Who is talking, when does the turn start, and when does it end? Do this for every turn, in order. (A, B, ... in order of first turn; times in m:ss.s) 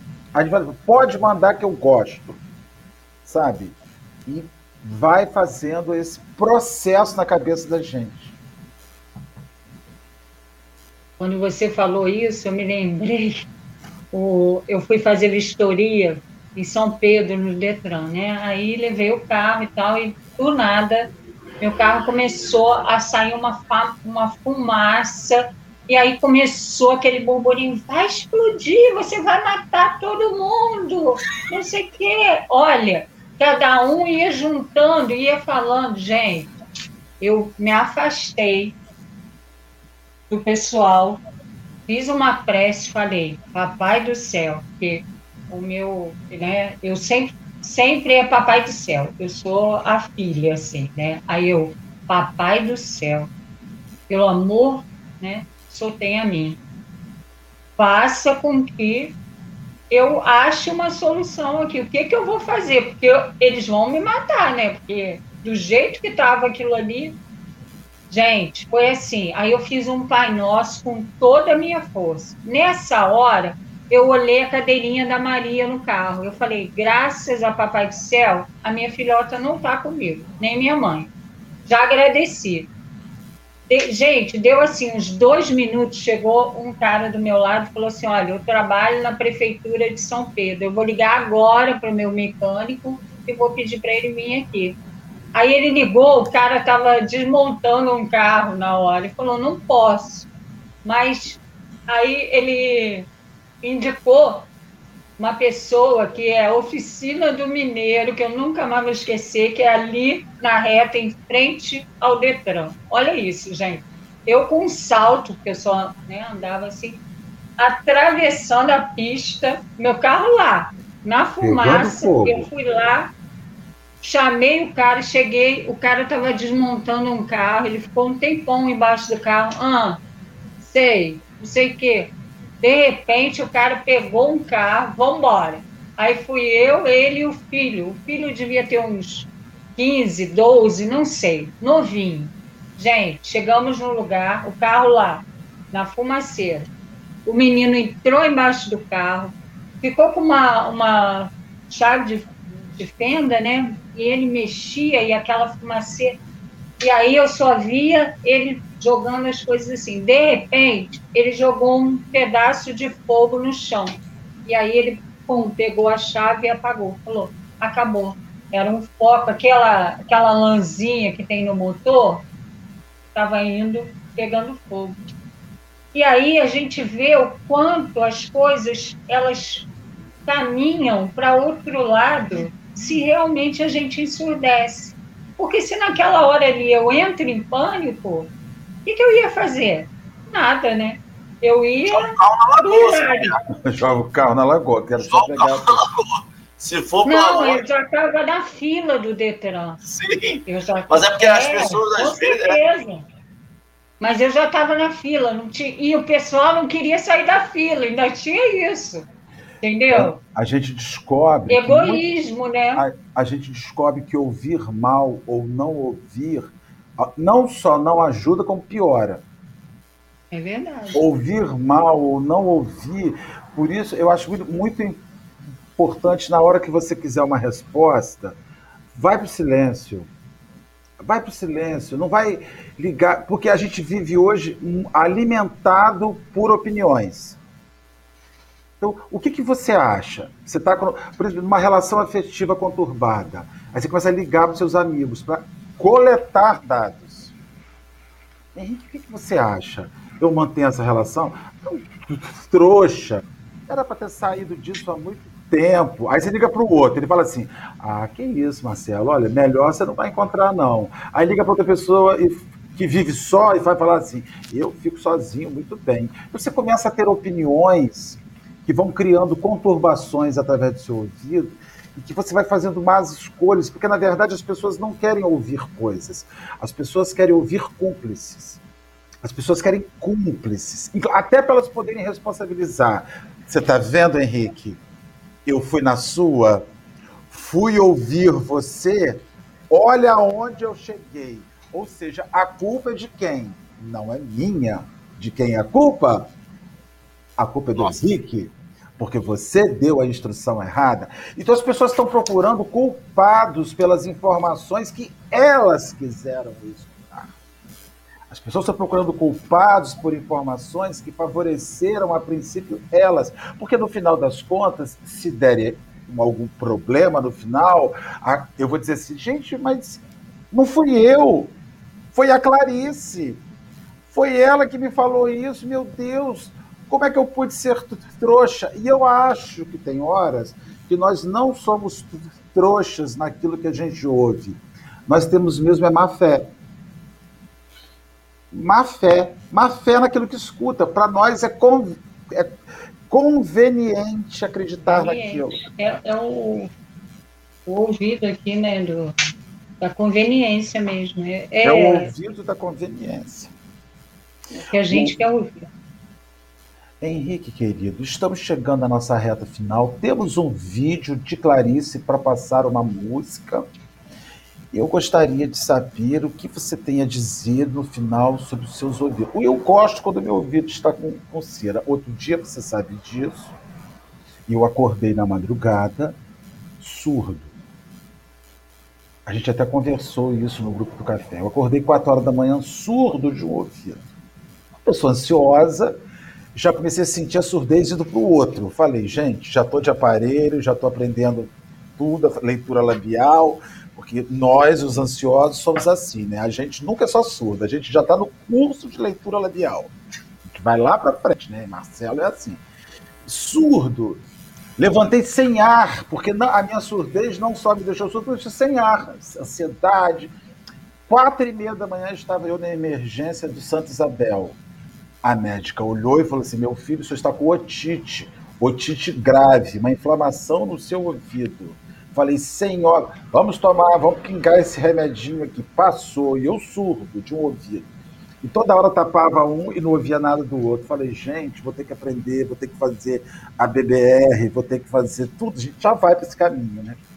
0:00.4-0:02.4 A
0:03.2-0:08.3 A
0:11.2-0:13.5 B
0:14.1-0:36.5 B
0:37.2-0:38.8 B
0:40.3-0:41.2 B
0:41.9-0:53.3 B
0:54.1-0:56.6 B
0:57.8-0:59.2 B
0:59.9-1:07.2 B
1:08.1-1:21.1 B
1:21.7-1:22.7 B
1:23.7-1:34.8 B
1:35.3-1:40.3 B
1:40.8-1:43.1 B
1:43.6-1:44.5 B
1:45.2-1:57.0 B
1:57.6-2:03.1 B
2:01.4-2:02.5 A
2:04.0-2:10.0 B
2:10.6-2:26.7 B
2:27.3-2:36.2 B
2:36.8-2:43.9 B
2:44.4-2:52.3 B
2:53.1-2:55.0 B
2:55.9-2:59.7 B
3:00.3-3:08.3 B
3:08.9-3:13.4 B
3:11.9-3:13.4 C
3:13.6-3:15.8 A
3:15.0-3:17.6 C
3:17.1-3:19.8 B
3:19.8-3:22.6 C
3:20.5-3:23.0 B
3:24.0-3:29.1 B
3:29.6-3:30.2 B
3:29.9-3:32.0 A
3:31.5-3:32.8 B
3:32.8-3:39.2 A
3:40.3-3:41.0 B
3:40.9-3:45.0 A
3:45.8-3:48.4 A
3:48.9-3:50.1 A
3:51.0-3:57.4 A
3:58.8-4:07.4 A
4:08.6-4:38.6 A
4:39.2-4:44.8 A
4:45.5-4:46.7 A
4:47.3-4:56.3 A
4:57.4-5:07.4 A
5:08.3-5:21.5 A
5:22.1-5:23.4 A
5:24.1-5:36.5 A
5:38.5-5:42.6 A
5:43.1-5:45.6 A
5:44.9-5:46.7 B
5:47.7-5:49.1 B
5:49.8-5:52.1 B
5:51.6-5:53.5 A
5:54.7-5:55.7 B
5:54.9-5:55.2 A
5:57.0-6:03.7 A
6:04.7-6:13.6 A
6:14.5-6:16.2 A
6:16.8-6:17.6 A
6:19.3-6:24.0 A
6:24.8-6:26.0 A
6:26.6-6:39.9 A
6:40.5-6:42.6 A
6:43.2-6:44.2 A
6:44.8-6:50.3 A
6:51.1-6:54.6 A
6:55.2-7:07.9 A
7:08.4-7:17.0 A